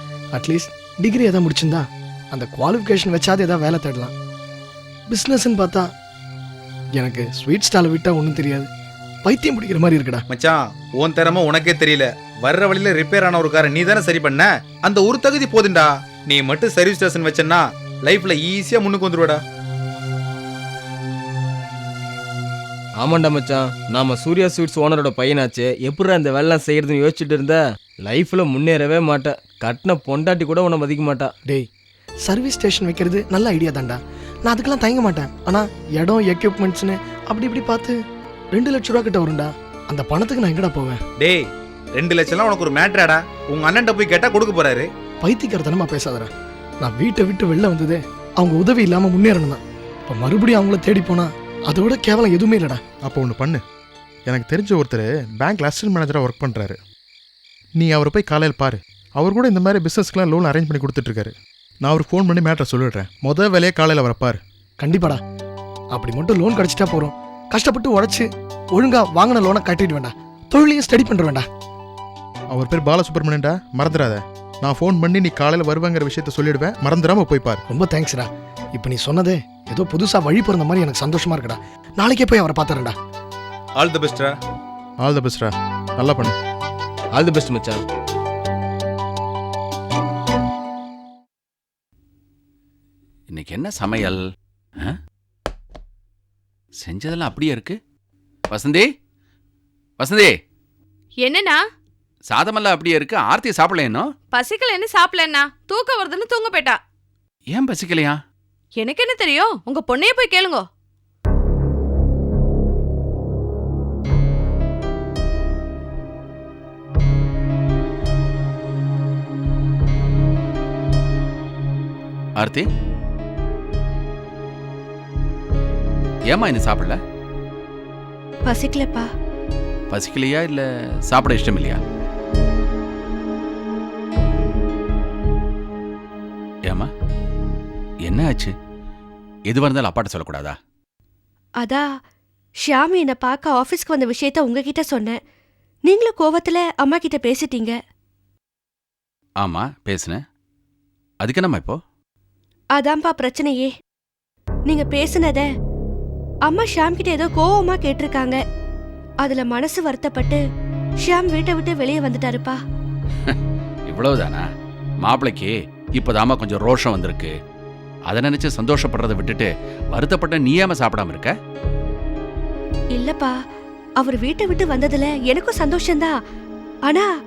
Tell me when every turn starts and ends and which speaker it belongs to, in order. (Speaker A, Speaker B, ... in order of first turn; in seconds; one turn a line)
Speaker A: 0.3-4.1
Speaker A: 5.1-5.9
Speaker A: 7.0-8.7
Speaker A: 9.2-10.2
Speaker B: 10.3-19.4
Speaker C: 23.0-31.3
Speaker A: 32.2-38.0
Speaker A: 38.5-41.0
Speaker B: 41.2-41.5
Speaker B: 42.0-44.9
Speaker A: 45.2-46.3
Speaker A: 46.8-52.8
Speaker D: 53.0-53.6
Speaker D: 54.3-56.8
Speaker D: 57.8-64.4
Speaker A: 64.8-65.2
Speaker A: 65.9-71.5
Speaker D: 72.5-77.6
Speaker A: 77.7-83.0
Speaker B: 83.8-84.3
Speaker D: 85.0-86.3
Speaker C: 87.1-87.8
Speaker E: 93.3-94.2
Speaker E: 96.8-97.8
Speaker E: 98.5-98.9
Speaker E: 100.0-100.3
Speaker F: 101.2-101.6
Speaker E: 102.3-104.1
Speaker F: 104.3-106.8
Speaker E: 107.5-108.2
Speaker F: 108.8-110.7
Speaker E: 122.4-122.7
Speaker E: 126.3-127.0
Speaker G: 128.5-129.0
Speaker E: 129.9-131.8
Speaker E: 138.1-138.5
Speaker E: 139.5-140.6
Speaker G: 142.7-145.2
Speaker G: 145.9-147.7
Speaker E: 149.4-150.2
Speaker E: 151.2-151.8
Speaker G: 152.8-153.7
Speaker G: 154.7-155.4
Speaker G: 156.5-158.4
Speaker G: 159.2-160.4
Speaker G: 161.1-162.6
Speaker E: 163.9-164.5
Speaker E: 165.0-167.3
Speaker E: 168.1-171.3
Speaker G: 172.9-173.3
Speaker G: 174.0-176.1